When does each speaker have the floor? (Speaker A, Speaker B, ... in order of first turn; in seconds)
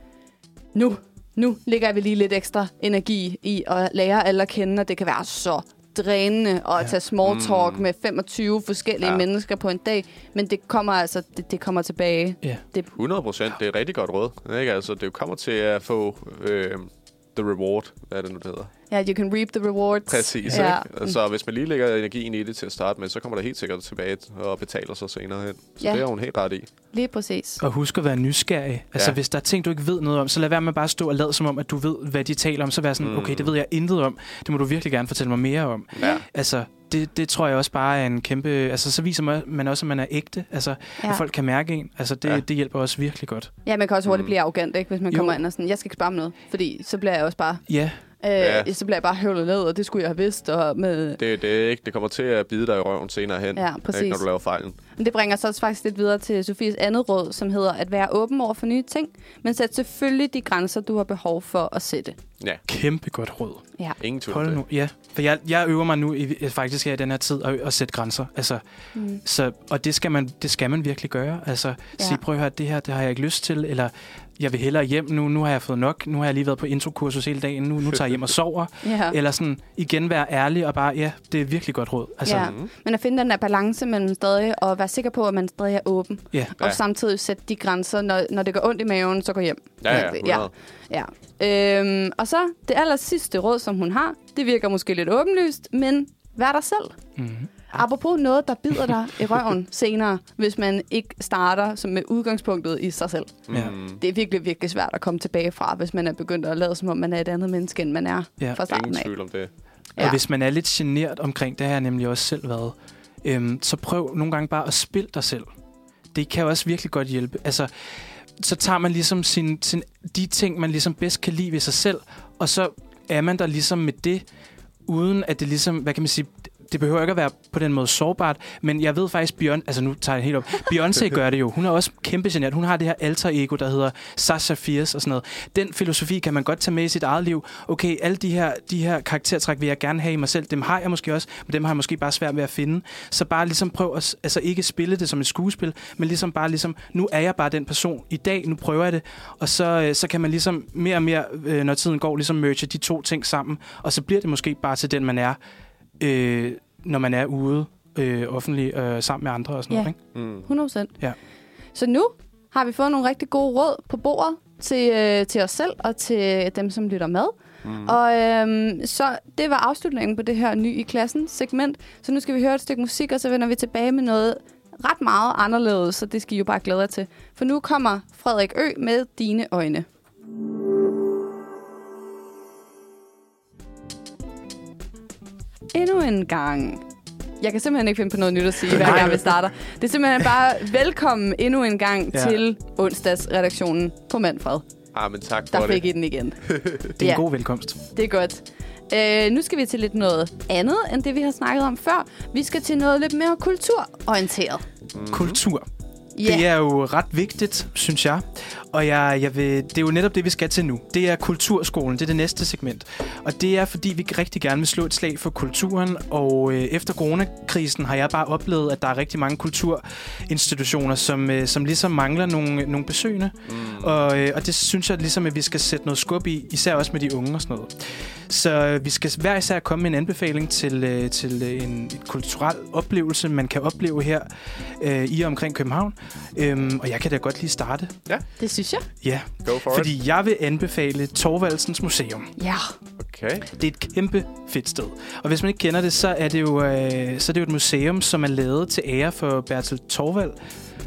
Speaker A: 0.8-12.9, 18.9-21.1, 26.9-27.6, 36.0-36.2, 43.7-47.6, 48.2-51.2, 53.5-54.2, 55.0-62.2, 69.0-69.2, 72.0-72.2, 78.8-79.2, 82.3-97.0, 97.7-109.1, 160.4-160.9, 161.8-179.9, 185.7-186.8, 187.4-194.6, 195.5-196.4, 197.0-197.2, 197.9-204.7, 206.2-206.5, 238.4-238.9, 242.4-242.7
Speaker B: 7.2-7.8, 12.9-18.7, 20.1-26.7, 33.0-33.5, 36.0-36.2, 44.1-44.3, 48.4-48.7, 51.2-54.8, 64.0-64.6, 82.3-82.7, 89.8-90.5, 103.5-104.0, 108.7-109.5, 160.2-160.5, 167.6-168.0, 194.9-195.8, 196.4-196.9, 204.9-205.4, 223.5-223.9, 239.4-239.9, 243.0-243.5
Speaker C: 27.6-43.5, 45.1-45.4, 47.7-48.0, 62.7-63.6, 64.3-68.6, 69.2-82.5, 97.2-97.6, 110.0-115.5, 116.1-117.7, 118.4-124.2, 124.9-155.4, 156.0-160.0, 188.7-189.3, 192.1-192.4, 197.0-197.8, 205.1-205.7, 206.2-237.9, 239.0-242.3, 243.6-250.4